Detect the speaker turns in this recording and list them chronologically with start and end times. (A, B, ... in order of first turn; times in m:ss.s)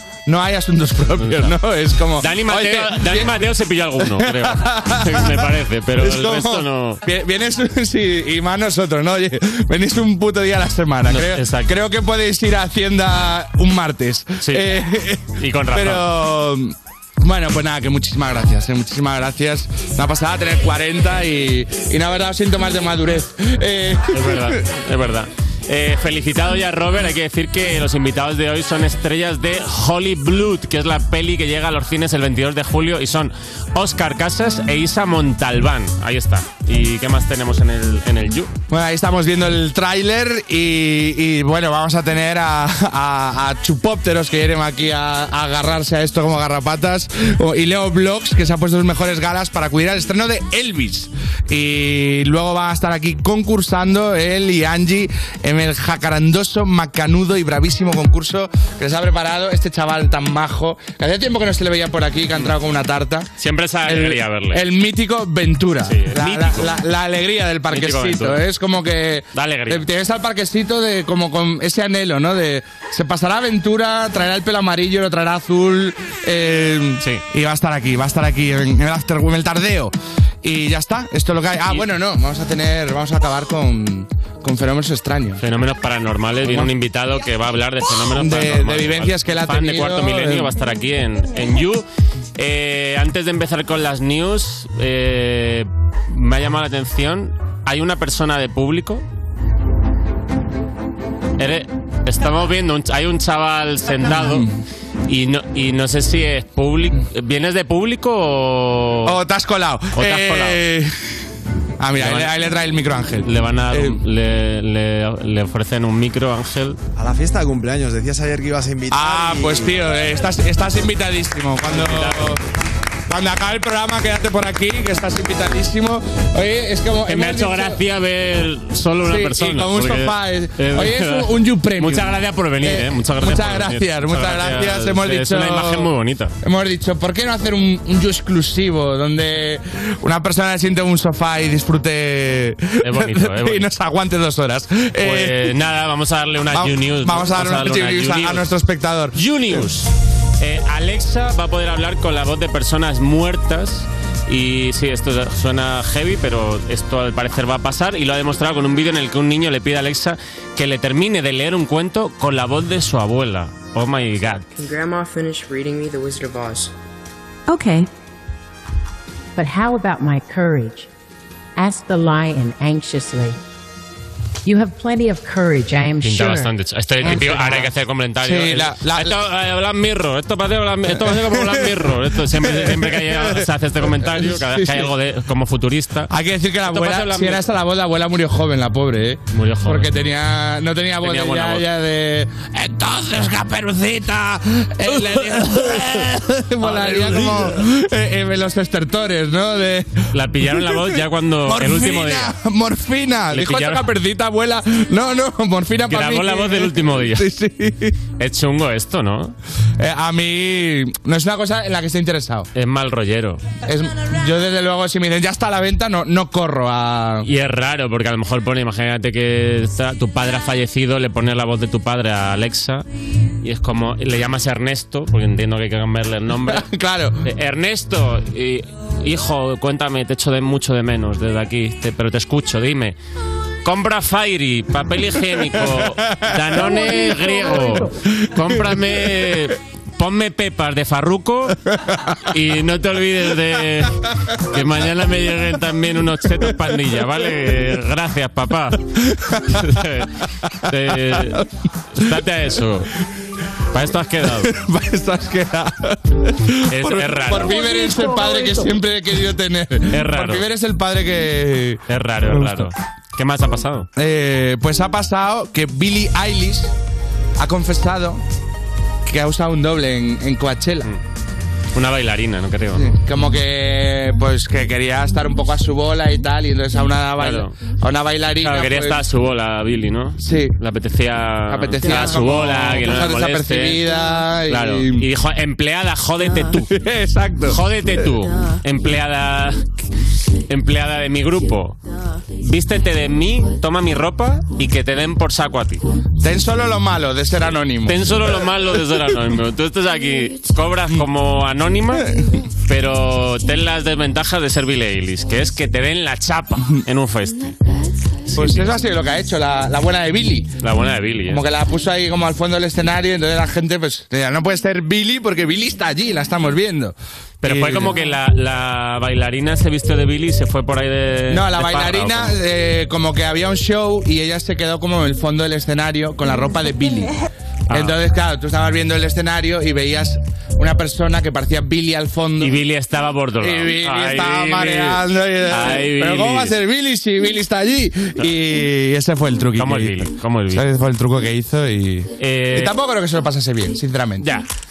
0:00.3-0:03.4 A
0:01.2-0:01.6 B
0:02.2-0:07.0 B
0:04.0-0:24.6 A
0:11.1-0:11.7 B
0:15.4-0:16.0 B
0:24.1-0:38.5 B
0:38.7-1:03.3 A
1:03.4-1:04.6 B
1:03.9-1:25.4 A
1:05.8-1:06.8 B
1:07.7-1:08.4 B
1:09.3-1:09.8 B
1:25.4-1:31.8 B
1:26.5-1:26.7 A
1:28.1-1:30.5 A
1:32.4-1:39.0 B
1:41.4-1:44.5 B
1:44.0-1:44.5 A
1:45.1-1:49.2 B
1:49.0-1:50.9 A
1:50.0-1:50.6 B
1:51.8-1:54.0 A
1:52.0-1:52.4 B
1:53.2-1:56.8 B
1:57.0-1:59.7 C
1:58.9-2:02.4 A
2:01.7-2:02.4 B
2:03.1-2:07.8 A
2:07.1-2:16.3 B
2:09.0-2:15.9 A
2:16.4-2:25.5 A
2:22.8-2:23.7 B
2:25.0-2:28.5 B
2:26.5-2:29.6 A
2:29.1-2:44.5 B
2:44.6-2:46.7 D
2:47.5-2:47.9 E
2:49.4-2:50.9 E
2:51.6-2:53.4 E
2:54.4-2:57.7 E
2:56.0-3:06.1 B
2:58.2-2:59.1 A
3:01.0-3:01.8 A
3:02.3-3:04.9 A
3:06.1-3:28.0 A
3:06.6-3:07.4 B
3:09.3-3:09.9 B
3:11.0-3:11.6 B
3:16.6-3:17.5 B
3:20.1-3:22.4 B
3:23.3-3:23.9 B
3:25.9-3:27.3 B
3:28.2-3:29.4 B
3:29.8-3:32.5 A
3:32.6-3:33.4 B
3:33.7-3:37.3 A
3:37.2-3:42.9 B
3:43.4-3:46.6 B
3:46.4-3:47.2 A
3:47.2-3:53.0 B
3:53.6-4:01.6 B
3:55.5-3:58.8 A
4:02.3-4:08.8 B
4:09.0-4:09.7 A
4:09.5-4:10.1 B
4:10.6-4:12.9 B
4:11.0-4:11.5 A
4:13.7-4:14.5 B
4:14.2-4:22.7 A
4:16.7-4:17.9 B
4:19.9-4:20.4 B
4:21.9-4:23.9 B
4:24.0-4:26.7 A
4:27.4-4:28.2 A
4:29.1-4:30.9 A
4:31.7-4:33.0 B
4:32.7-4:39.0 A
4:37.2-4:37.5 B
4:38.4-4:43.8 B
4:40.2-4:40.6 A
4:41.5-4:45.1 A
4:44.5-4:46.7 B
4:46.5-4:48.0 A
4:47.5-4:49.6 B
4:50.5-4:51.8 B
4:52.4-4:55.8 B
4:56.2-4:58.3 A
4:57.9-5:02.1 B
5:02.7-5:07.5 B
5:08.3-5:08.8 B
5:08.4-5:10.5 A
5:10.6-5:11.4 B
5:11.3-5:18.0 A
5:17.4-5:22.4 B
5:21.3-5:27.1 A
5:27.7-5:28.0 B
5:27.7-5:32.6 A
5:32.4-5:36.6 B
5:33.4-5:44.3 A
5:39.6-5:40.7 B
5:42.2-5:42.7 B